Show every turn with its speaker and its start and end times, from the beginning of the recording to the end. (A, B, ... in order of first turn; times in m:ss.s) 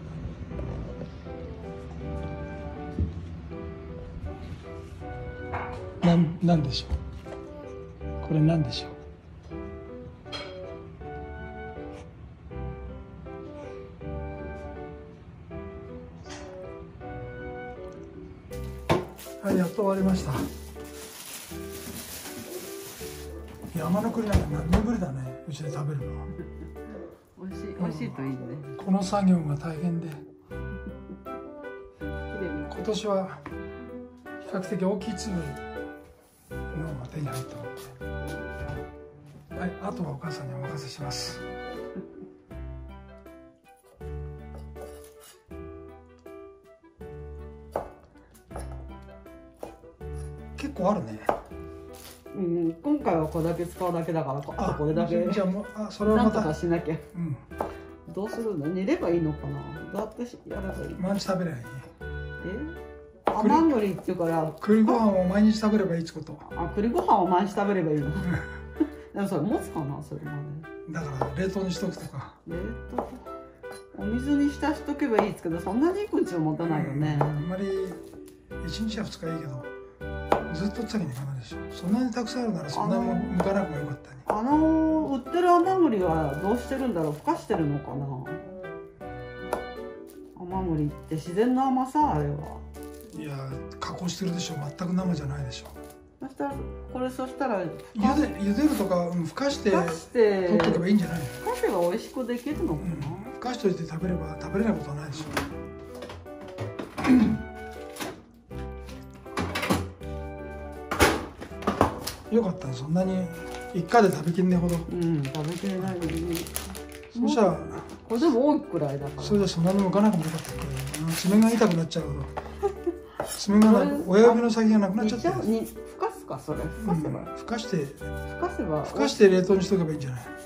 0:06.0-0:07.0 A
0:08.2-0:09.0 A
0:19.4-0:20.5 A
0:23.7-0:26.3 A
0:27.4-0:28.8 B
0:27.8-0:28.2 A
0:28.8-0:30.2 A
0:32.2-0:33.0 B
0:32.7-0:33.4 A
0:34.4-0:35.6 A
0:36.7-0:37.9 A
0:39.5-0:41.4 A
0:50.6-0:51.3 A
0:52.3-0:55.5 B
0:54.6-0:56.5 A
0:56.0-0:57.0 B
0:57.1-0:57.4 A
0:58.1-1:01.1 B
1:01.0-1:01.9 A
1:02.4-1:02.8 B
1:03.3-1:05.0 B
1:03.4-1:03.7 A
1:04.6-1:06.4 A
1:06.4-1:08.5 B
1:09.1-1:10.7 B
1:10.9-1:12.4 A
1:12.4-1:13.2 B
1:13.9-1:17.4 B
1:16.6-1:18.0 A
1:18.6-1:19.7 A
1:20.5-1:24.2 A
1:22.7-1:23.4 B
1:24.3-1:28.5 B
1:30.4-1:32.6 B
1:33.1-1:35.8 A
1:36.2-1:38.3 B
1:38.0-1:41.4 A
1:39.6-1:40.9 B
1:41.4-1:43.3 B
1:42.8-1:45.4 A
1:52.3-1:54.9 A
1:54.9-1:59.5 B
1:57.1-1:58.0 A
1:59.2-2:02.3 A
2:03.3-2:05.5 A
2:03.6-2:07.3 B
2:06.8-2:08.0 A
2:08.3-2:09.4 B
2:08.8-2:10.3 A